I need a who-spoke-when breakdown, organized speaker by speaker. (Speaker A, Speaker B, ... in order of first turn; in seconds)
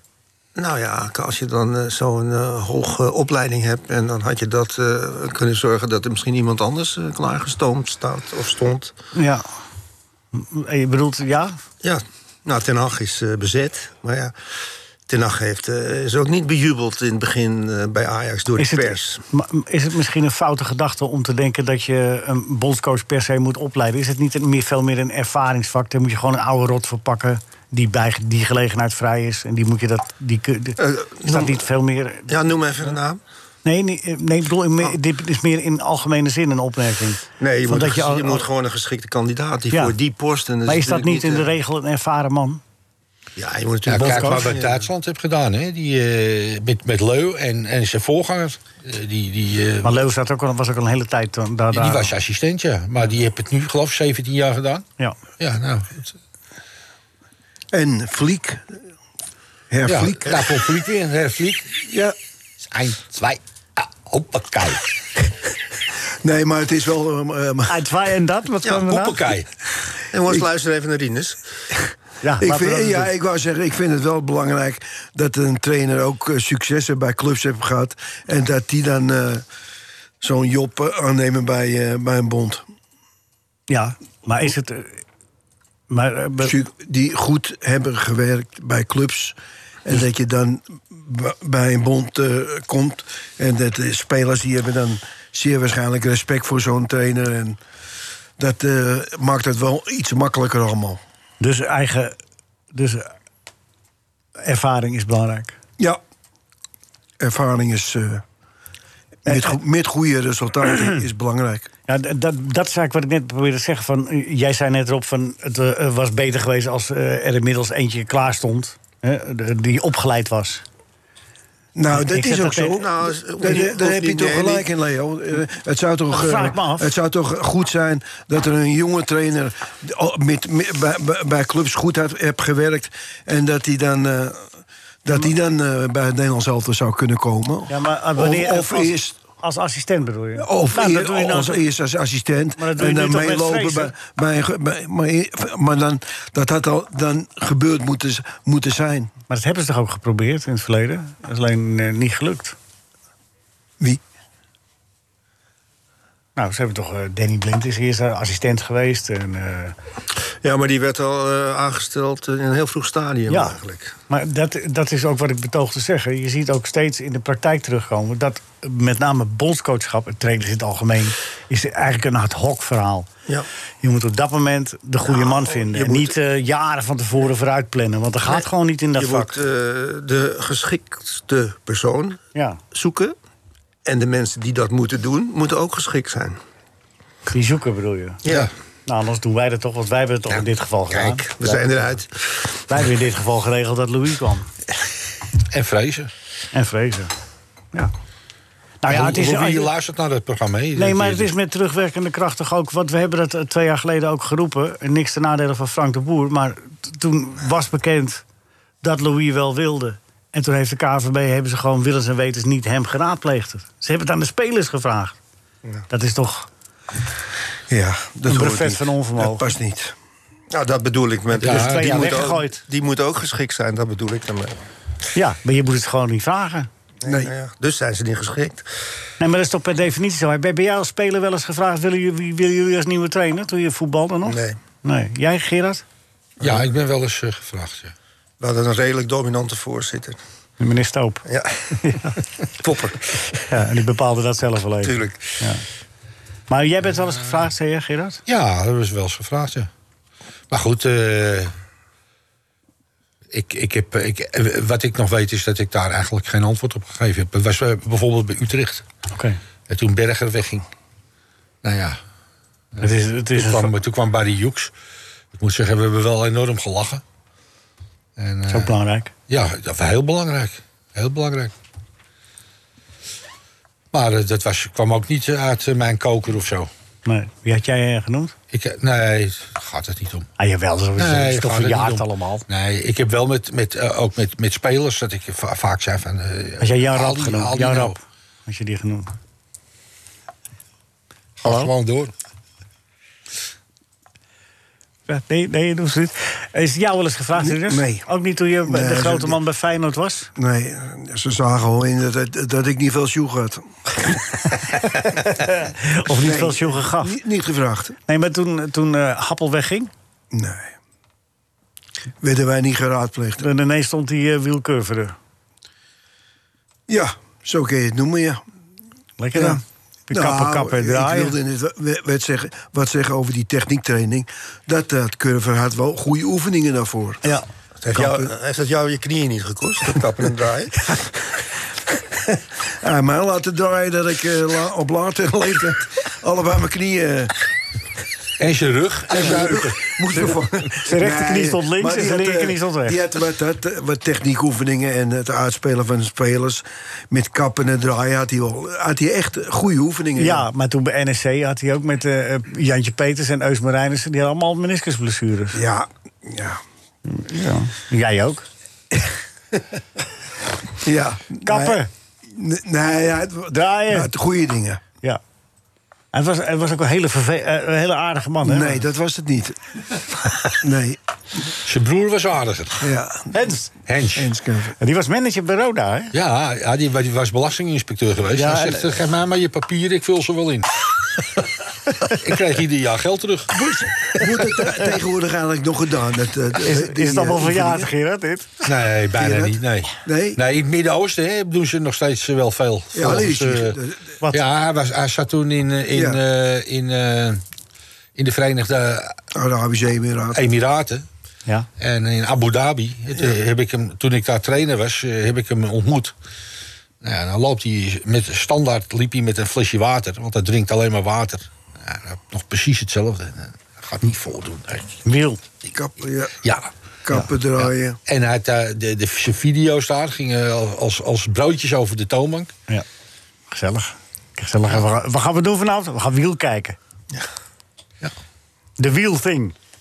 Speaker A: 0.6-8.9, 11.8-14.3, 15.1-19.2, 30.8-31.6, 32.3-33.2, 37.4-41.5, 43.4-44.8, 70.1-71.4, 122.7-124.7, 160.4-163.9, 175.0-176.1, 178.9-182.2, 182.7-183.1, 183.8-186.4, 188.2-188.5, 190.9-192.5, 220.5-224.6, 227.0-228.6, 234.2-234.6, 238.4-240.2, 241.3-241.9, 242.6-243.4, 244.8-245.3, 327.8-331.2
Speaker B: 9.1-9.4, 10.3-11.6, 18.6-32.3, 33.6-38.5, 39.7-40.0, 40.6-42.6, 43.9-44.5, 49.8-52.1, 67.7-69.3, 72.2-73.1, 83.7-85.0, 85.9-86.5, 101.4-102.2, 102.7-103.1, 104.4-105.6, 109.3-109.5, 111.9-120.6, 121.9-122.8, 126.1-126.9, 137.7-141.6, 142.6-143.9, 149.3-152.6, 156.3-159.7, 163.3-173.1, 173.8-179.3, 182.3-182.6, 187.3-188.2, 188.9-191.8, 192.7-194.5, 196.5-197.1, 198.8-199.7, 200.8-208.2, 208.8-215.2, 215.9-216.5, 218.3-219.5, 221.4-222.6, 225.1-226.7, 229.2-235.8, 240.6-241.2, 241.8-242.2, 243.5-245.6, 246.5-248.2, 262.8-263.7, 268.5-269.1, 277.0-278.3, 280.4-282.4, 286.6-289.1, 291.4-291.7, 295.1-300.3, 305.0-307.2, 308.1-309.9, 313.4-315.1, 319.2-321.4, 340.8-343.0, 350.2-355.6, 357.0-358.5, 361.4-361.9, 363.5-364.1, 366.1-368.9, 373.3-373.7, 374.8-376.1, 378.3-378.9, 386.6-388.5, 415.0-415.4, 423.5-426.8, 428.8-429.5
Speaker C: 43.9-50.0, 51.7-54.9, 55.4-56.1, 59.8-61.7, 62.6-64.9, 68.8-69.5, 195.5-196.1, 198.9-201.3, 221.4-222.2, 236.4-237.9, 248.2-249.7, 250.5-251.5, 253.3-258.8, 259.7-260.6, 261.6-262.0, 262.7-264.7, 265.3-267.0, 268.2-268.7, 269.3-271.5, 273.9-276.7, 278.5-280.3, 281.0-288.0, 291.4-292.1, 338.4-339.9, 371.6-372.9, 373.9-374.3, 376.1-380.7, 382.0-383.6, 388.6-393.8, 394.3-397.4, 398.1-399.1, 400.3-401.0, 401.8-406.1, 407.0-415.0, 416.4-416.7, 417.6-422.5
Speaker D: 57.7-58.8, 59.7-60.6, 61.9-62.1, 66.2-67.8, 72.4-79.4, 80.2-82.6, 86.4-97.6, 98.4-101.0, 107.2-108.2, 109.2-111.7, 121.7-134.5, 135.0-139.2, 140.4-149.1, 217.7-219.9, 227.0-227.3, 297.4-298.1, 298.6-299.4, 300.4-304.2, 306.1-307.9, 310.3-310.7, 312.2-313.5, 316.9-318.4, 319.3-327.3, 327.9-328.3, 332.2-337.3, 339.1-350.4, 355.5-356.6, 360.8-364.8, 368.4-371.0, 372.8-373.3, 374.1-374.7, 383.5-387.9, 389.2-390.4, 392.9-394.1, 395.9-396.2, 399.3-400.4, 415.7-416.4, 417.0-418.0